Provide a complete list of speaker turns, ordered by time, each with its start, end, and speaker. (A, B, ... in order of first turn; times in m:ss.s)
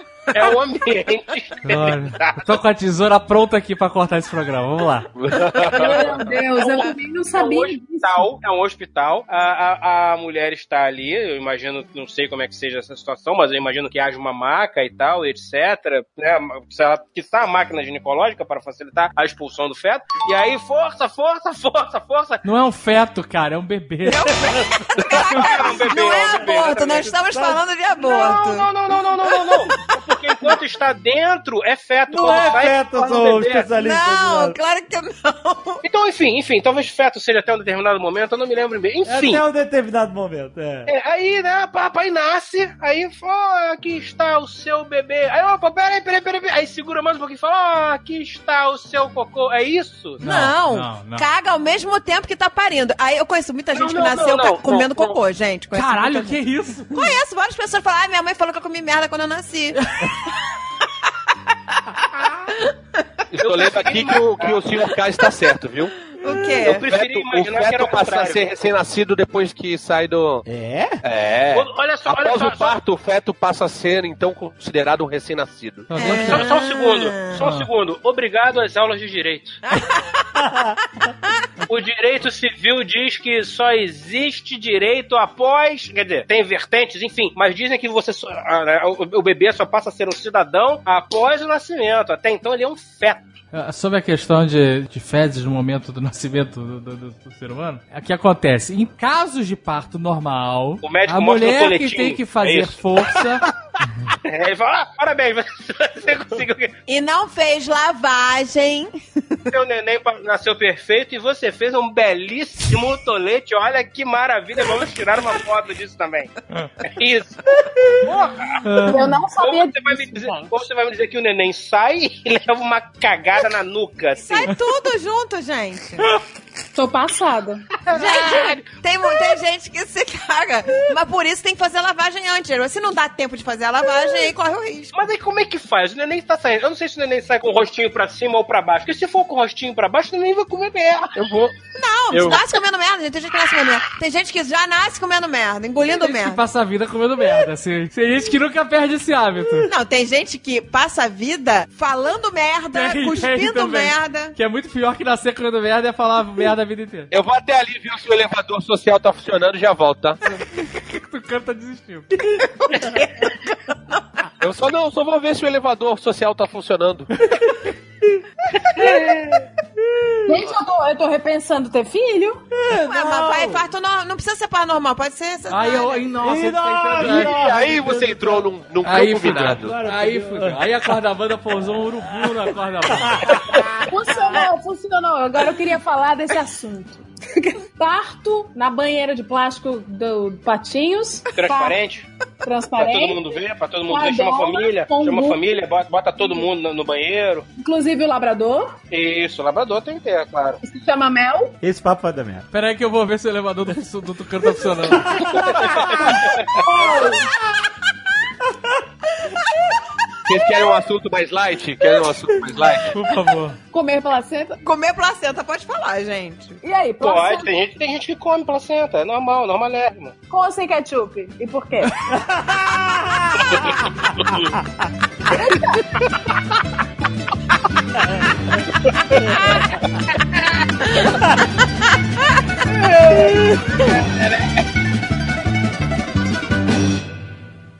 0:00.3-0:02.6 A
0:01.6-0:05.1 B
0:05.1-0:06.2 C
0:05.6-0:22.4 A
0:05.7-0:08.3 D
0:22.4-0:24.6 B
0:24.1-0:28.7 E
0:25.2-0:27.1 A
0:27.1-0:27.6 F
0:28.0-0:33.7 A
0:32.1-0:34.6 F
0:32.3-0:32.5 E
0:33.7-0:35.8 E
0:35.8-0:39.4 A
0:39.0-0:40.9 F
0:40.9-0:50.2 A
0:50.2-0:56.4 E
0:50.2-0:51.3 B
0:53.7-0:55.1 A
0:55.7-0:56.9 B
0:56.9-0:59.9 E
1:03.3-1:05.9 C
1:03.4-1:04.7 A
1:06.2-1:06.8 E
1:06.6-1:08.4 A
1:06.7-1:10.4 C
1:10.4-1:11.0 F
1:11.0-1:15.9 C
1:11.5-1:12.8 A
1:15.9-1:16.5 B
1:16.0-1:17.4 E
1:16.0-1:19.6 A
1:17.3-1:17.7 B
1:19.7-1:20.0 E
1:20.4-1:20.7 F
1:21.7-1:33.3 A
1:33.5-1:43.4 B
1:40.8-1:42.8 A
1:44.3-1:46.7 A
1:46.9-1:49.0 E
1:49.5-1:56.3 A
1:56.8-1:57.4 A
1:58.0-2:04.5 A
1:58.6-1:59.1 B
1:58.9-2:00.5 D
2:04.1-2:06.1 E
2:06.7-2:07.6 D
2:07.9-2:08.6 A
2:07.9-2:14.9 E
2:14.9-2:21.5 A
2:21.7-2:26.4 E
2:25.9-2:29.7 B
2:29.6-2:34.3 E
2:32.7-2:37.1 B
2:37.1-2:40.2 C
2:40.3-2:42.2 B
2:42.6-2:43.3 E
2:43.9-2:44.3 E
2:44.4-2:47.1 C
2:48.8-2:49.4 A
2:49.9-2:50.3 F
2:50.2-2:52.4 D
2:52.6-2:53.6 F
2:52.7-2:56.0 E
2:55.5-2:57.3 B
2:56.2-2:58.5 F
2:57.0-2:59.8 C
2:58.8-3:03.4 B
2:59.4-3:00.7 F
3:02.9-3:03.6 F
3:03.8-3:11.8 D
3:11.4-3:12.1 A
3:12.4-3:13.2 D
3:12.8-3:17.4 A
3:13.9-3:15.4 D
3:17.6-3:18.8 D
3:18.9-3:20.6 A
3:20.6-3:21.5 D
3:21.6-3:22.5 F
3:22.5-3:25.2 B
3:25.6-3:26.6 A
3:26.6-3:27.3 D
3:30.2-3:32.9 C
3:32.9-3:33.6 B
3:33.7-3:34.6 D
3:34.6-3:36.6 E
3:36.6-3:37.5 D
3:37.0-3:40.1 A
3:40.3-3:41.9 D
3:42.1-3:43.4 F
3:43.8-3:44.4 A
3:45.3-3:45.9 D
3:53.9-3:54.3 A